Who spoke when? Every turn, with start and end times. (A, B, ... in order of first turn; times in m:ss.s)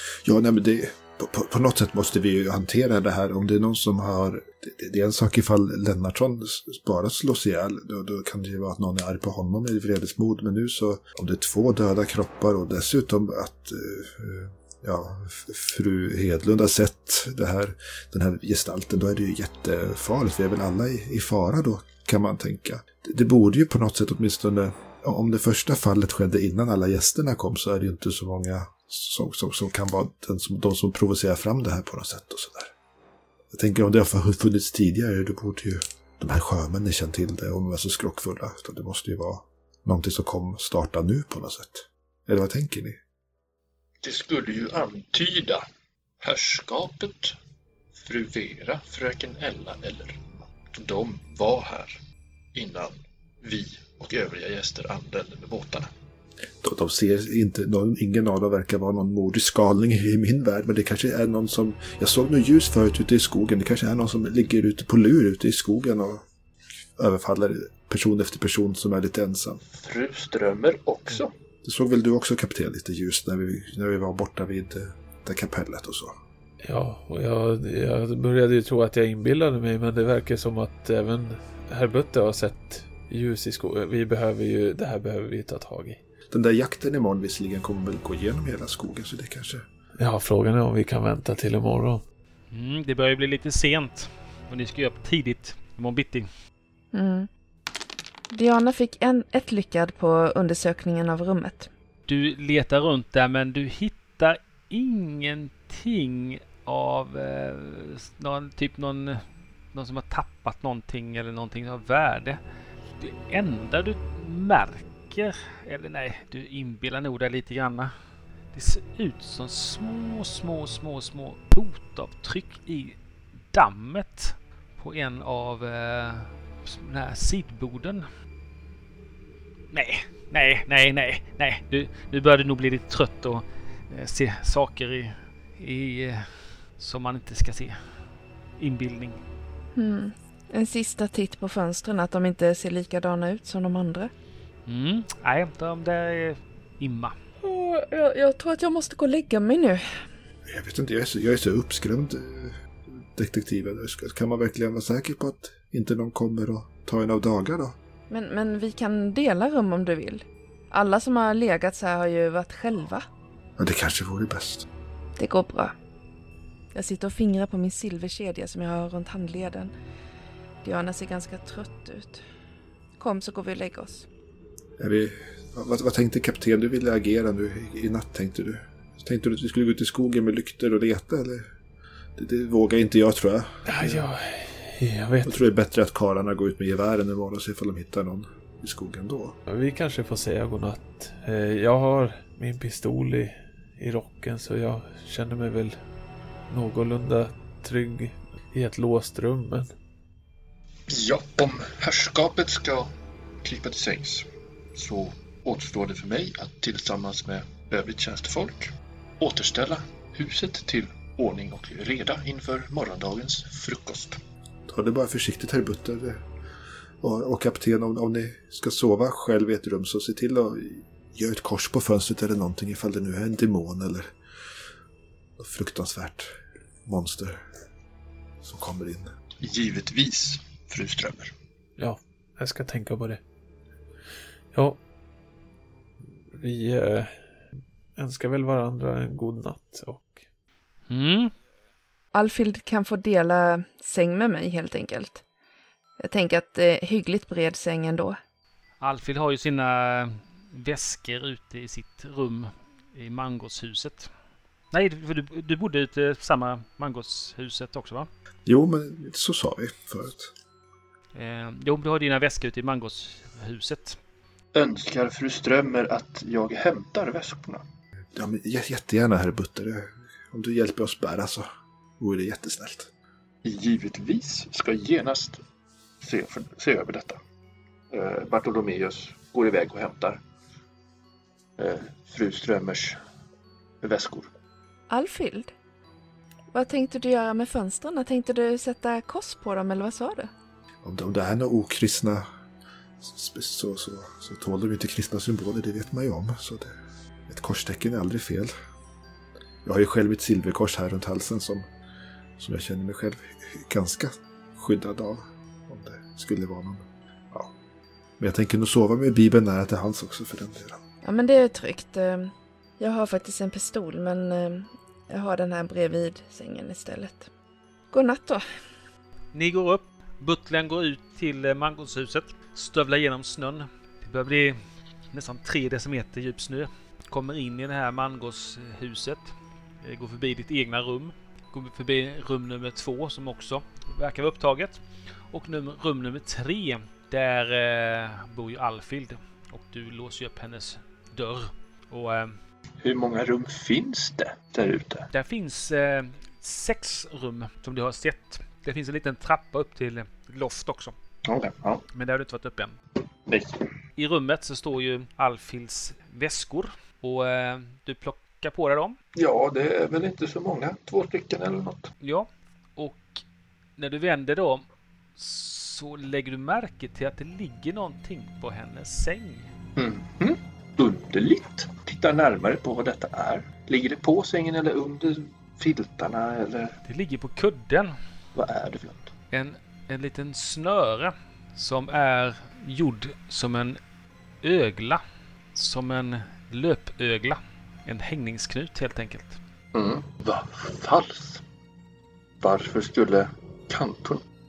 0:00.2-0:32.7 A
0:33.5-0:43.0 A
0:44.0-0:45.6 B
0:46.2-0:47.4 B
0:48.0-0:52.0 B
0:52.5-0:55.9 B
0:56.6-1:06.2 A
1:07.0-1:09.6 A
1:09.7-1:11.3 B
1:11.6-1:16.2 A
1:16.6-1:26.0 C
1:26.3-1:29.6 A
1:30.0-1:32.0 C
1:32.5-1:36.3 D
1:36.9-1:37.3 E
1:38.3-1:41.7 E
1:42.1-1:52.4 D
1:53.0-1:57.9 D
1:58.5-2:03.0 D
2:03.5-2:08.1 D
2:09.7-2:18.0 D
2:18.6-2:19.2 D
2:19.8-2:24.1 E
2:24.7-2:27.2 D
2:27.4-2:29.8 E
2:30.5-2:37.8 A
2:38.1-2:43.1 E
2:43.6-2:44.7 A
2:45.2-2:45.7 E
2:46.7-2:49.7 E
2:50.6-2:52.2 E
2:53.0-2:54.1 E
2:54.8-3:01.5 A
3:02.2-3:04.1 A
3:03.7-3:05.4 C
3:05.2-3:09.4 A
3:09.5-3:15.8 C
3:16.5-3:19.7 C
3:20.9-3:22.9 B
3:23.4-3:34.2 B
3:34.7-3:36.2 A
3:37.0-3:44.1 A
3:45.4-3:47.4 A
3:48.4-3:49.1 A
3:49.4-3:51.3 B
3:51.8-3:53.2 C
3:54.5-3:54.8 C
3:56.3-3:57.1 C
3:58.0-4:00.2 C
4:00.9-4:01.3 D
4:02.1-4:05.2 E
4:06.0-4:08.2 E
4:08.8-4:14.1 D
4:14.7-4:18.1 D
4:18.5-4:20.3 A
4:21.1-4:24.0 D
4:24.5-4:27.6 B
4:28.1-4:31.5 A
4:32.0-4:32.9 A
4:33.4-4:35.4 B
4:36.0-4:37.2 B
4:37.9-4:40.2 B
4:41.6-4:43.0 B
4:43.8-4:44.3 B
4:44.9-4:45.5 E
4:46.5-4:50.3 E
4:50.8-4:52.2 A
4:53.0-4:56.8 A
4:57.3-4:58.5 A
4:59.6-5:01.6 A
5:02.4-5:07.5 A
5:08.2-5:10.8 A
5:11.0-5:17.3 E
5:17.9-5:18.4 E
5:19.3-5:24.6 D
5:25.1-5:42.4 D
5:42.8-5:45.1 B
5:45.1-5:51.0 D
5:51.2-5:51.8 B
5:51.9-5:52.8 D
5:53.3-5:53.5 B
5:54.0-5:59.0 D
5:59.2-6:01.9 B
6:02.0-6:03.2 D
6:03.8-6:04.6 D
6:05.2-6:09.5 D
6:09.8-6:16.8 B
6:16.8-6:18.0 D
6:18.4-6:19.1 B
6:19.3-6:23.8 D
6:24.4-6:25.0 D
6:25.5-6:29.4 D
6:29.7-6:31.4 B
6:32.4-6:34.2 B